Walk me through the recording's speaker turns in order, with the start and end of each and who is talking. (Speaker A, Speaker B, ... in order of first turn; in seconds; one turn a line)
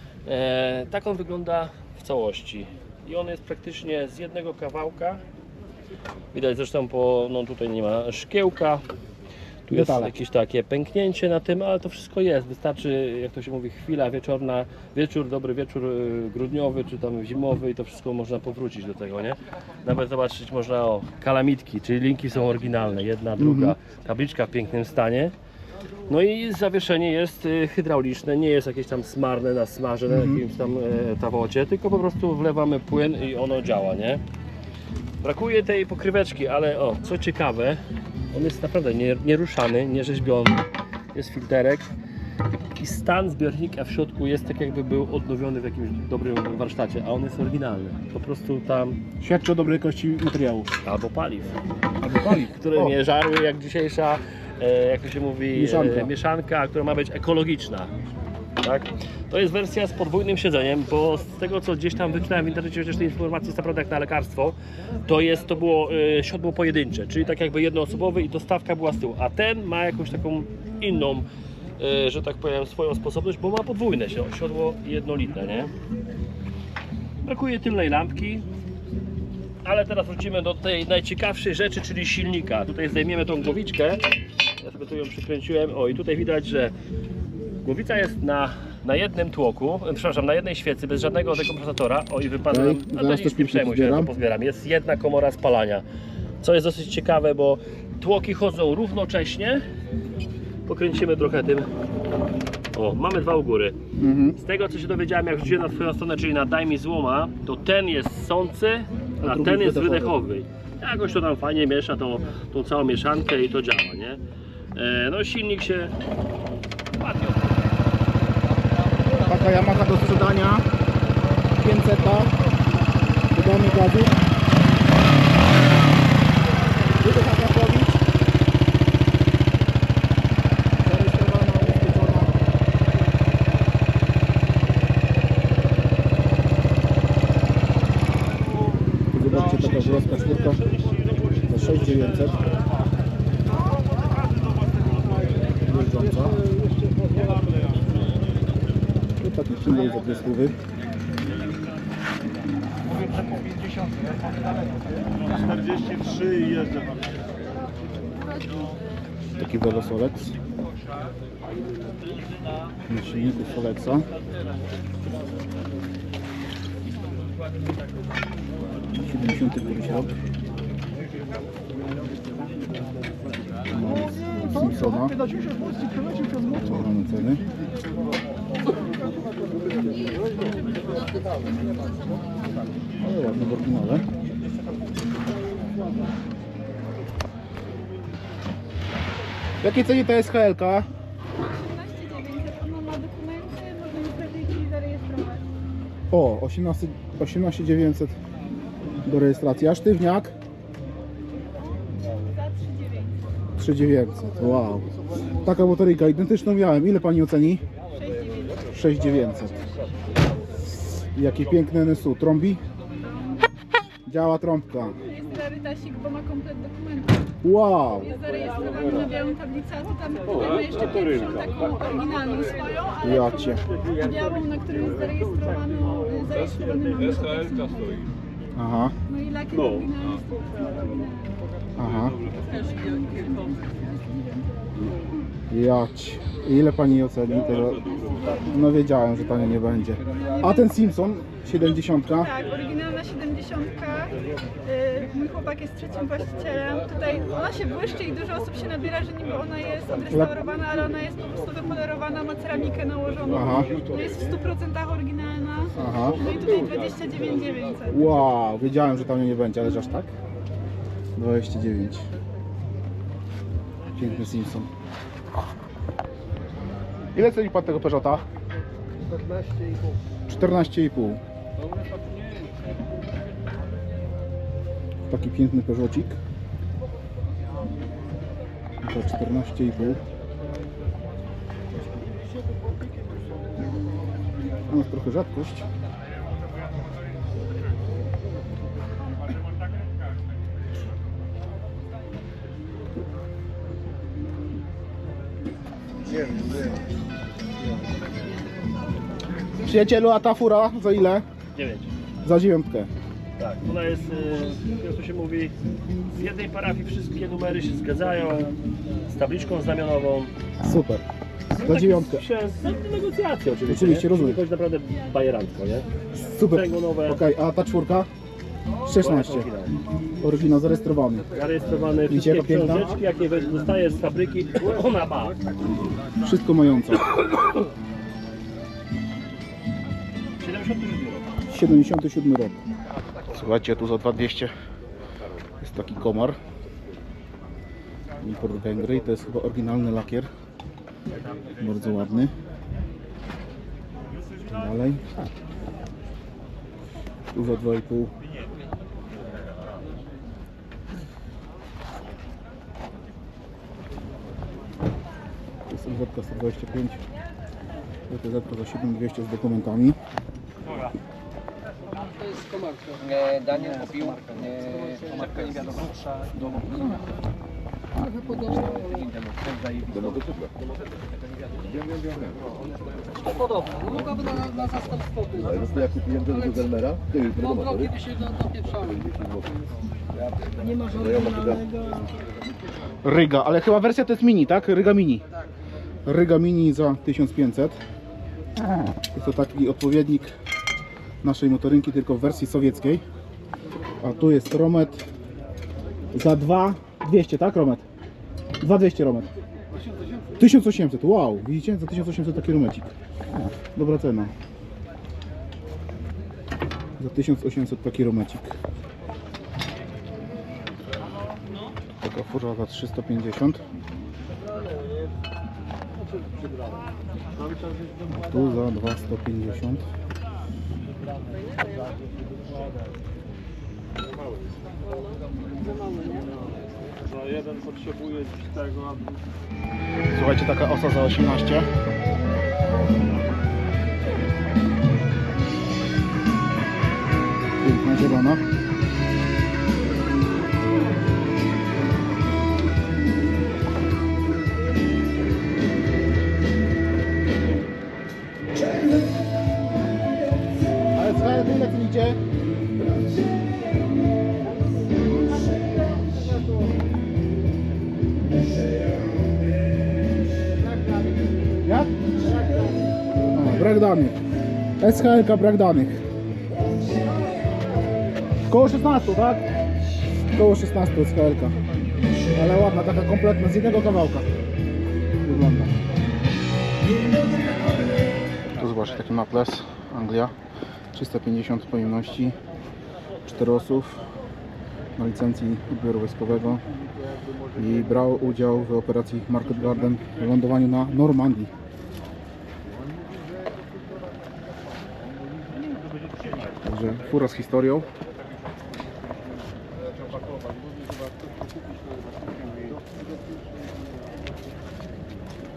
Speaker A: 0.2-5.2
Speaker A: 6.3-8.8
Speaker A: 9.7-25.3
Speaker B: 9.7-10.1
Speaker B: 23.4-23.7
Speaker A: 26.1-34.2
Speaker B: 30.1-30.4
Speaker A: 35.2-37.8
Speaker A: 38.3-41.9
Speaker A: 42.8-49.0
Speaker B: 49.2-50.7
Speaker A: 50.8-51.5
Speaker B: 52.0-53.0
Speaker A: 52.4-57.9
Speaker B: 55.5-56.1
Speaker A: 58.6-71.3
Speaker A: 71.8-75.7
Speaker A: 77.2-78.5
Speaker A: 79.6-84.0
Speaker A: 84.6-86.7
Speaker A: 87.6-95.8
Speaker B: 92.5-94.1
Speaker A: 96.4-99.6
Speaker A: 100.7-101.7
Speaker A: 102.7-103.8
Speaker B: 104.0-104.4
Speaker A: 104.4-114.2
Speaker B: 109.2-110.1
Speaker A: 114.7-115.9
Speaker A: 117.0-117.5
Speaker B: 119.2-120.7
Speaker B: 121.6-122.3
Speaker B: 123.3-124.2
Speaker B: 126.9-128.0
Speaker B: 130.8-132.3
Speaker B: 139.1-140.6
Speaker C: 139.4-140.9
Speaker B: 141.4-142.4
Speaker B: 145.5-146.4
Speaker B: 149.2-150.6
Speaker C: 155.1-157.3
Speaker B: 159.4-160.4
Speaker B: 162.9-164.1
Speaker B: 168.9-170.1
Speaker B: 173.7-175.3
Speaker B: 176.3-177.4
Speaker B: 183.0-184.0
Speaker B: 189.6-190.9
Speaker D: 191.4-195.4
Speaker B: 196.1-198.2
Speaker B: 199.0-200.3
Speaker D: 202.2-203.1
Speaker B: 203.6-207.6
Speaker D: 207.9-208.6
Speaker B: 208.6-209.6
Speaker B: 210.5-212.6
Speaker D: 213.1-213.4
Speaker B: 214.1-215.0
Speaker D: 215.0-217.3
Speaker B: 217.4-218.2
Speaker D: 218.1-223.2
Speaker C: 220.3-221.5
Speaker B: 223.0-223.6
Speaker D: 223.9-228.1
Speaker B: 228.6-228.9
Speaker D: 229.1-231.3
Speaker C: 229.6-229.9
Speaker B: 231.8-232.2
Speaker D: 232.5-234.3
Speaker B: 235.5-242.3
Speaker D: 238.0-238.2
Speaker D: 242.2-257.9
Speaker B: 250.1-250.4
Speaker B: 253.3-253.7
Speaker B: 255.8-256.3
Speaker B: 257.9-260.1
Speaker B: 261.1-262.0
Speaker B: 263.9-264.7
Speaker B: 267.1-268.2
Speaker B: 270.3-271.2
Speaker B: 275.1-276.2
Speaker B: 278.8-280.0
Speaker B: 284.7-285.6
Speaker B: 299.6-301.2
Speaker A: 301.5-301.9
Speaker B: 302.2-302.9
Speaker A: 303.4-305.5
Speaker A: 306.1-308.5
Speaker A: 309.1-310.3
Speaker B: 310.6-311.0
Speaker A: 311.6-315.9
Speaker B: 311.6-312.2
Speaker B: 313.7-314.4
Speaker B: 316.1-318.1
Speaker A: 316.4-317.2
Speaker B: 318.8-319.5
Speaker A: 318.9-319.7
Speaker B: 320.2-321.2
Speaker A: 321.3-325.4
Speaker B: 322.1-323.0
Speaker B: 326.2-327.1
Speaker A: 330.4-331.3
Speaker B: 331.5-332.6
Speaker B: 333.3-334.5
Speaker B: 335.6-336.4
Speaker B: 338.2-340.3
Speaker B: 341.6-342.3
Speaker B: 344.4-345.3
Speaker B: 347.3-348.1
Speaker B: 355.7-357.0
Speaker B: 358.1-360.0
Speaker A: 360.6-360.9
Speaker E: 363.8-366.9
Speaker E: 368.3-369.9
Speaker F: 369.9-370.3
Speaker F: 375.5-377.9
Speaker D: 380.8-382.1
Speaker B: 383.0-385.2
Speaker B: 386.0-387.8
Speaker B: 389.1-390.3
Speaker B: 391.2-393.0
Speaker B: 394.0-395.0
Speaker B: 396.1-397.8
Speaker B: 398.6-399.3
Speaker B: 400.4-402.9
Speaker B: 403.7-404.3
Speaker B: 407.0-408.5
Speaker B: 412.0-413.6
Speaker B: 418.0-419.8
Speaker C: 427.1-429.2
Speaker B: 430.1-431.7
Speaker B: 437.6-438.4
Speaker B: 450.9-452.2
Speaker B: 461.6-462.4
Speaker B: 463.3-464.2
Speaker B: 464.8-466.0
Speaker B: 468.5-469.4
Speaker B: 470.3-471.6
Speaker B: 472.3-474.3
Speaker B: 475.2-475.8
Speaker B: 478.5-480.3
Speaker B: 480.9-482.4
Speaker B: 483.2-484.0
Speaker B: 484.9-486.6
Speaker B: 487.5-491.5
Speaker C: 496.0-496.3
Speaker B: 496.6-497.9
Speaker C: 501.7-502.8